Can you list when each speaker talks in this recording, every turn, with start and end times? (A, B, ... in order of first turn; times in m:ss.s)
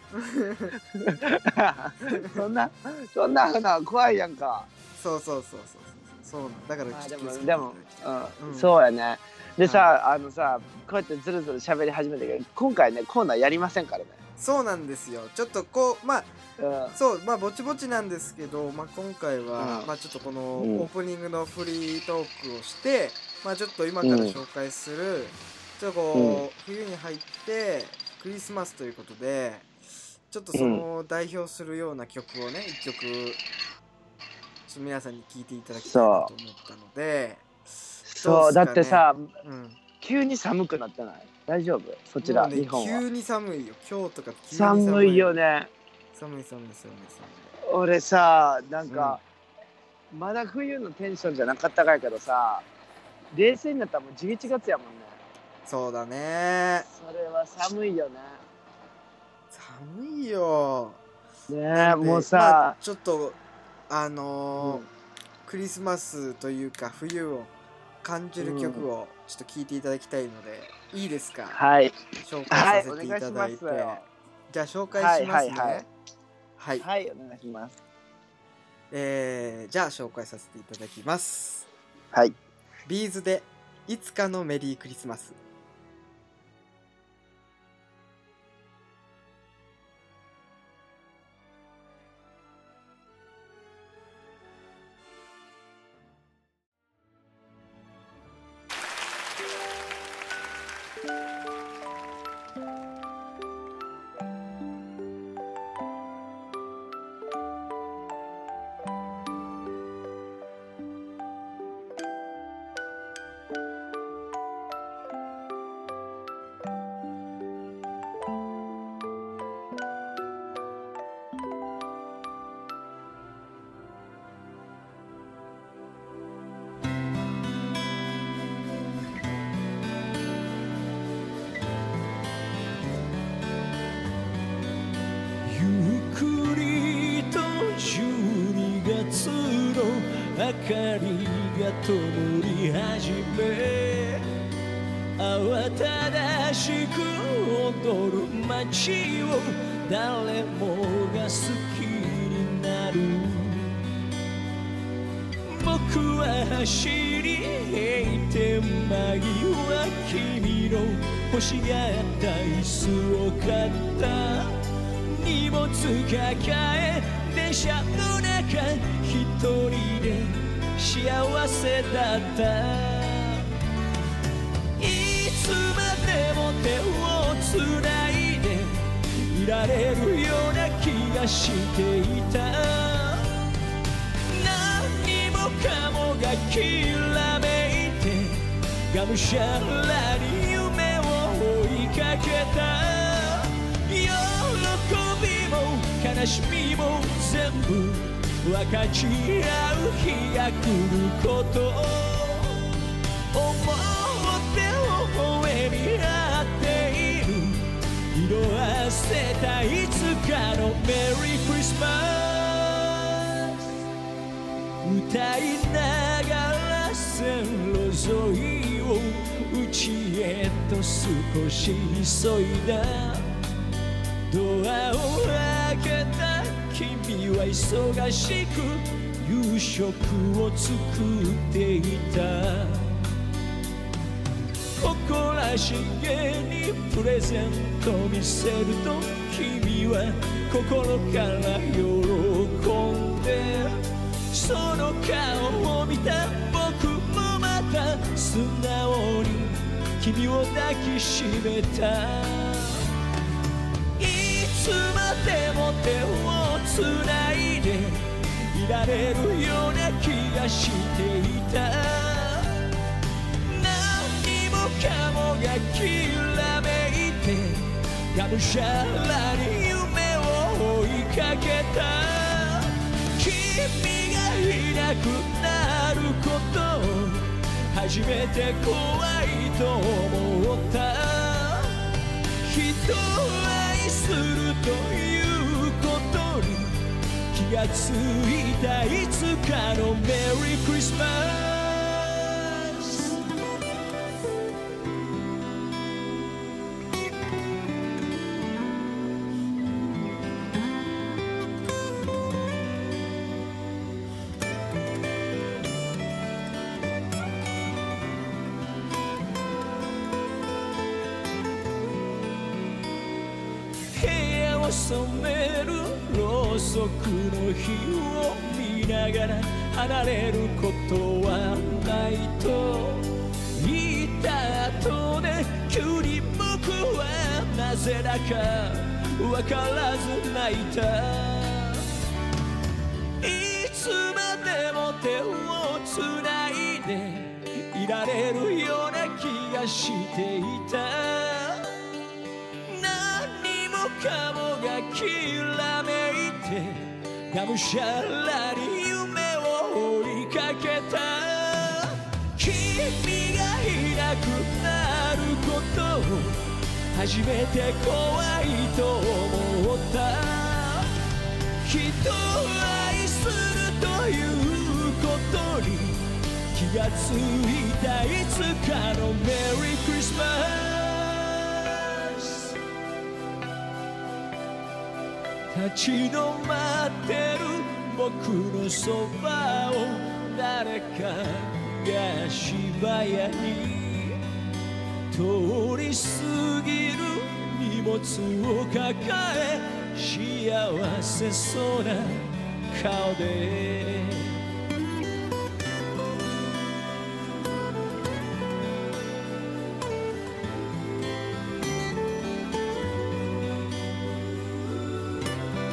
0:00.1-0:00.7 A
0:00.9-0:04.7 B
0:02.0-0:02.4 A
0:05.0-0:08.7 A
0:06.9-0:14.2 B
0:09.6-0:09.9 A
0:14.4-0:16.3 A
0:16.6-0:17.0 B
0:16.9-0:29.7 A
0:19.6-0:19.9 B
0:20.6-0:20.9 B
0:24.0-0:24.4 B
0:26.1-0:26.4 B
0:30.3-0:33.4 A
0:30.5-0:30.8 B
0:34.7-0:37.5 A
0:35.7-0:36.3 B
0:38.1-0:39.3 B
0:38.2-0:39.8 A
0:40.0-0:43.0 B
0:42.2-0:45.4 A
0:44.5-0:45.7 B
0:46.1-0:47.5 A
0:47.7-0:49.2 B
0:48.9-0:49.2 A
0:50.1-0:52.6 B
0:53.3-0:55.2 B
0:55.6-0:56.9 A
0:56.9-0:58.4 B
0:59.5-1:01.0 A
1:01.5-1:02.8 B
1:01.7-1:03.4 A
1:03.9-1:04.8 A
1:04.5-1:04.8 B
1:05.4-1:07.5 A
1:08.0-1:11.6 A
1:08.4-1:08.8 B
1:11.5-1:14.1 B
1:12.2-1:15.9 A
1:14.9-1:15.8 B
1:16.6-1:16.8 A
1:16.8-1:17.8 B
1:18.9-1:21.7 A
1:22.8-1:25.4 A
2:15.4-2:24.3 C
2:25.2-2:33.8 C
2:35.4-2:53.5 C
2:54.8-3:03.6 C
3:04.3-3:33.8 C
3:34.8-3:43.4 C
3:44.3-3:53.1 C
3:54.8-4:12.9 C
4:14.0-4:22.8 C
4:23.4-4:41.8 C
4:42.4-4:53.2 C
5:13.9-5:31.9 C
5:33.2-5:42.0 C
5:42.6-6:01.0 C
6:01.6-6:12.6 C
6:15.5-6:24.2 C
6:25.1-6:34.4 C